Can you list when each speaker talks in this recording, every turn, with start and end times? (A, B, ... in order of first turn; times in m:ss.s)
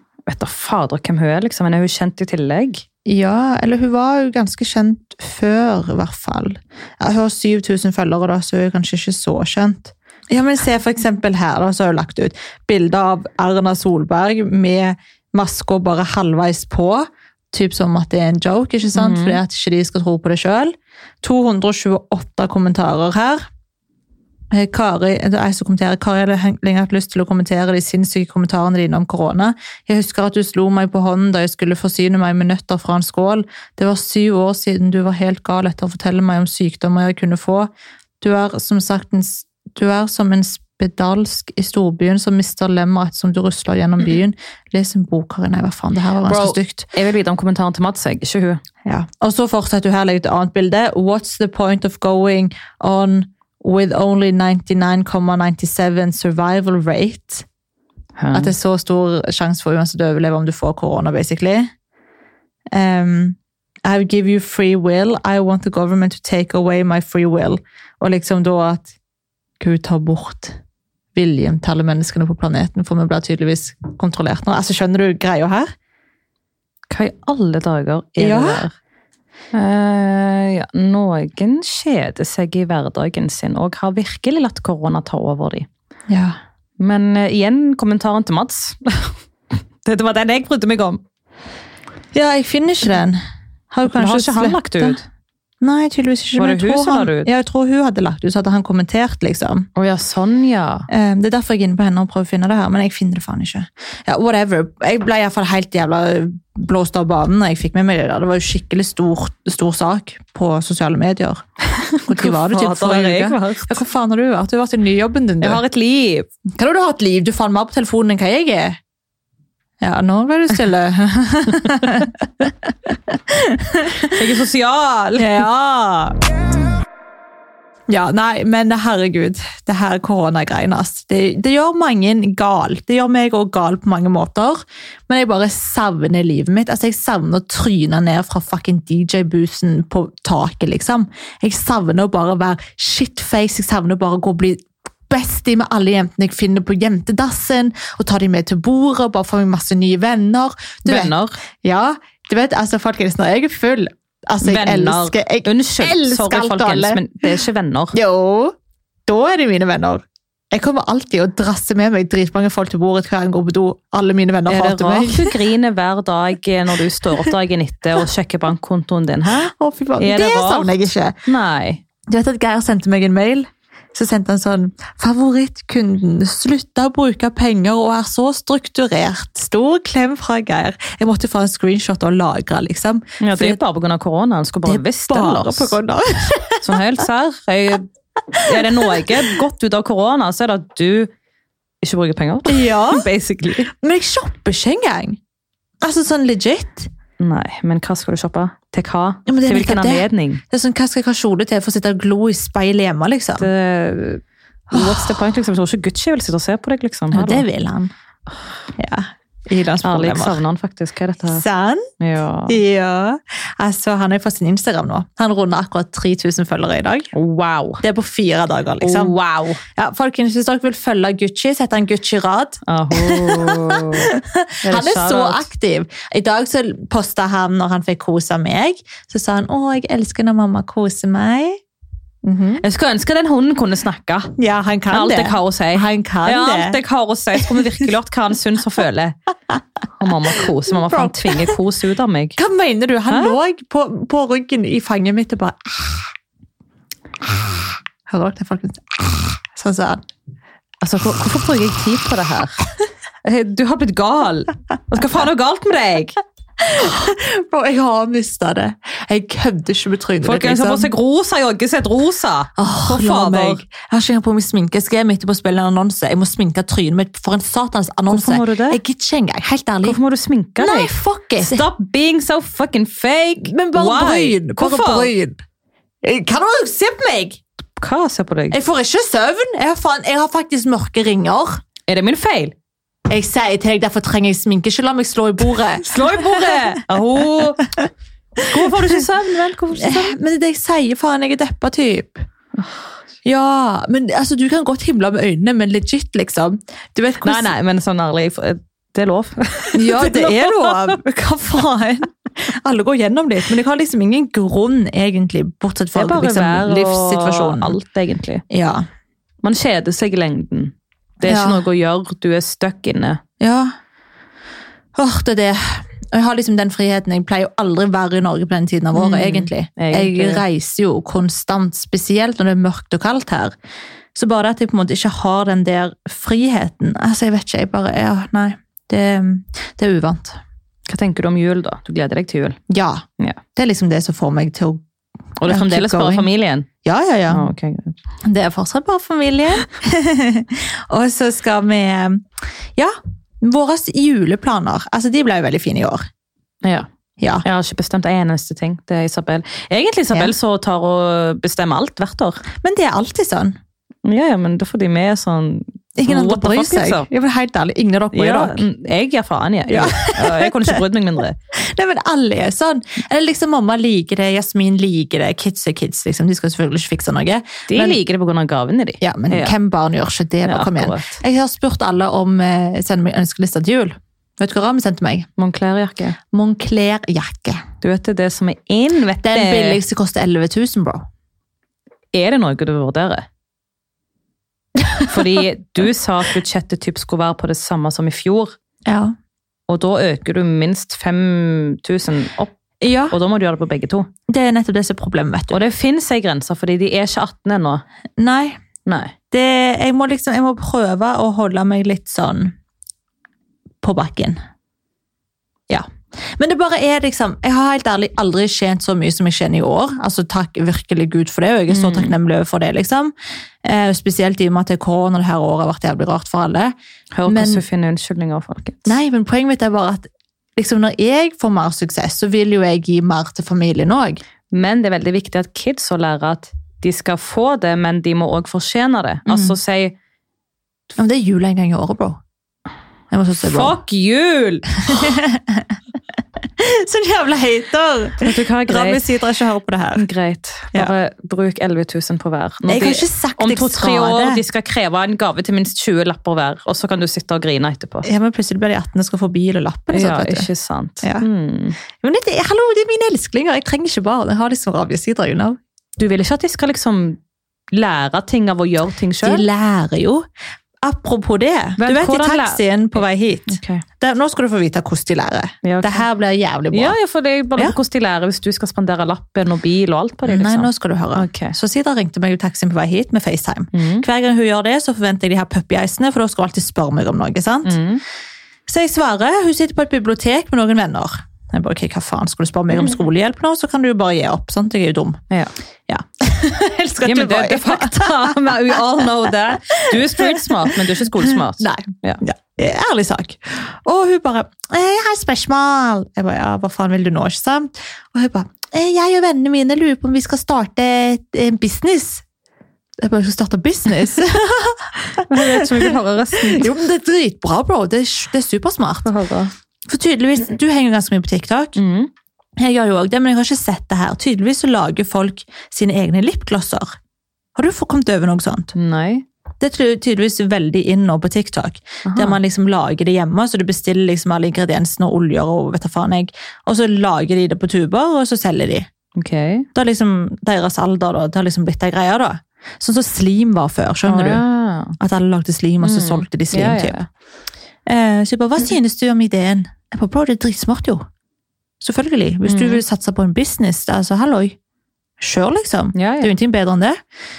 0:00.3-0:02.8 A
0:03.1-0:23.4 B
0:18.9-0:19.4 A
0:24.5-0:46.9 B
0:46.2-0:48.6 A
0:48.8-0:57.4 B
0:58.2-0:58.5 A
0:58.3-1:01.7 B
1:02.7-1:08.9 B
1:09.6-1:10.6 B
1:11.1-1:15.7 B
1:16.9-1:18.7 A
1:18.2-1:18.6 B
1:19.5-1:25.7 A
1:26.1-1:26.4 B
1:26.8-1:31.0 A
1:32.1-1:35.0 B
1:33.9-1:35.0 A
1:35.6-1:39.7 B
1:36.4-1:37.3 A
1:39.8-1:40.9 A
1:40.9-1:51.4 B
1:51.8-1:53.8 A
1:52.0-1:55.6 B
1:55.4-1:56.3 A
1:56.6-1:58.8 B
1:59.8-2:04.2 B
2:04.1-2:05.4 A
2:05.2-2:06.2 B
2:07.9-2:37.0 B
2:30.8-2:31.4 A
2:34.4-2:38.0 A
2:37.9-2:38.6 B
2:39.1-2:45.4 B
2:44.5-2:50.7 A
2:49.4-2:51.2 B
2:51.2-2:51.8 A
2:52.1-3:03.6 B
3:03.2-3:05.8 A
3:04.6-3:06.8 B
3:06.6-3:07.9 A
3:08.3-3:09.2 B
3:08.4-3:11.1 A
3:11.8-3:13.7 A
3:12.5-3:13.1 B
3:13.7-3:15.2 B
3:15.8-3:16.9 B
3:17.2-3:20.4 A
3:19.3-3:23.5 B
3:23.4-3:27.4 A
3:24.7-3:25.2 B
3:27.1-3:27.9 B
3:28.8-3:30.4 B
3:29.8-3:31.4 A
3:31.3-3:31.9 B
3:32.0-3:32.6 A
3:32.5-3:37.1 B
3:37.1-3:37.8 A
3:37.8-3:39.2 B
3:38.8-3:39.6 A
3:39.7-3:51.6 B
3:42.7-3:44.1 A
3:44.6-3:45.5 A
3:52.2-3:52.6 B
3:52.6-3:54.3 A
3:54.4-3:56.8 B
3:54.9-3:59.2 A
4:00.0-4:02.4 A
4:00.7-4:01.5 B
4:02.4-4:06.1 B
4:03.1-4:03.4 A
4:08.1-4:10.0 B
4:10.8-4:12.6 A
4:13.2-4:16.2 A
4:16.6-4:20.9 B
4:20.2-4:23.6 A
4:22.6-4:30.0 B
4:28.1-4:28.8 A
4:29.8-4:35.1 A
4:30.6-4:31.7 B
4:33.4-4:35.4 B
4:36.0-4:37.4 B
4:37.8-4:38.6 A
4:38.5-4:41.6 B
4:41.9-4:42.5 A
4:43.1-4:46.6 B
4:45.8-4:47.7 A
4:48.4-4:50.2 A
4:49.8-4:52.2 B
4:52.6-4:52.8 A
4:53.2-4:57.5 B
4:57.2-5:01.0 A
4:59.7-5:07.8 B
5:05.9-5:08.4 A
5:08.5-5:08.9 B
5:09.4-5:13.2 A
5:11.2-5:11.6 B
5:13.4-5:13.7 B
5:15.0-5:23.5 B
5:18.9-5:20.4 A
5:24.1-5:30.4 B
5:30.9-5:32.6 A
5:32.7-5:34.8 B
5:35.4-5:36.7 A
5:35.4-5:36.3 B
5:36.8-5:37.5 B
5:37.3-5:38.0 A
5:38.2-5:42.2 B
5:42.8-5:46.1 B
5:46.6-5:46.9 A
5:47.2-5:47.4 B
5:47.4-5:52.4 A
5:52.6-5:53.6 B
5:54.0-5:57.1 A
5:56.0-5:58.6 B
5:58.1-6:01.4 A
5:59.7-6:00.8 B
6:01.6-6:08.0 B
6:07.7-6:09.6 A
6:09.0-6:15.3 B
6:10.4-6:11.2 A
6:15.4-6:16.2 A
6:16.3-6:17.6 B
6:17.8-6:19.8 A
6:19.2-6:21.0 B
6:22.1-6:23.2 A
6:24.8-6:25.1 B
6:25.1-6:28.6 A
6:28.9-6:29.1 B
6:29.7-6:32.5 A
6:32.8-6:33.2 B
6:33.1-6:34.1 A
6:34.3-6:35.6 B
6:35.5-6:37.8 A
6:38.2-6:38.6 B
6:38.8-6:39.1 A
6:39.3-6:42.5 B
6:43.8-6:44.4 B
6:45.7-6:53.1 B
6:51.7-6:52.1 A
6:53.6-6:56.7 B
6:57.1-6:58.9 A
6:57.3-6:57.6 B
6:58.9-7:04.2 B
7:04.5-7:09.9 A
7:09.3-7:09.6 B
7:11.0-7:12.2 B
7:13.1-7:13.8 B
7:13.4-7:14.7 A
7:14.9-7:15.6 B
7:16.6-7:20.0 B
7:18.2-7:19.1 A
7:20.0-7:28.1 A
7:22.7-7:24.4 B
7:28.0-7:30.5 B
7:29.9-7:31.8 A
7:31.0-7:31.3 B
7:32.0-7:35.6 B
7:36.0-7:37.2 A
7:37.7-7:39.4 A
7:39.2-7:40.2 B
7:40.8-7:47.0 B
7:41.8-7:43.8 A
7:45.6-7:46.1 A
7:46.7-7:51.6 A
7:50.2-7:57.8 B
7:53.7-7:54.1 A
7:57.6-7:58.0 A
7:58.7-8:05.2 B
8:05.9-8:08.5 B
8:07.0-8:12.2 A
8:09.6-8:22.2 B
8:23.0-8:29.1 B
8:25.3-8:26.7 A
8:29.0-8:29.5 A
8:29.9-8:31.8 B
8:31.8-8:32.1 A
8:32.6-8:36.9 B
8:37.6-8:38.7 B
8:38.7-8:39.2 A
8:39.6-8:48.9 B
8:42.0-8:42.4 A
8:49.1-8:49.7 A
8:49.7-8:54.4 B
8:54.1-8:55.0 A
8:55.0-8:57.0 B
8:55.8-8:57.1 A
8:57.9-9:01.0 B
9:01.8-9:04.6 B
9:02.4-9:02.8 A
9:05.2-9:07.0 B
9:05.9-9:06.3 A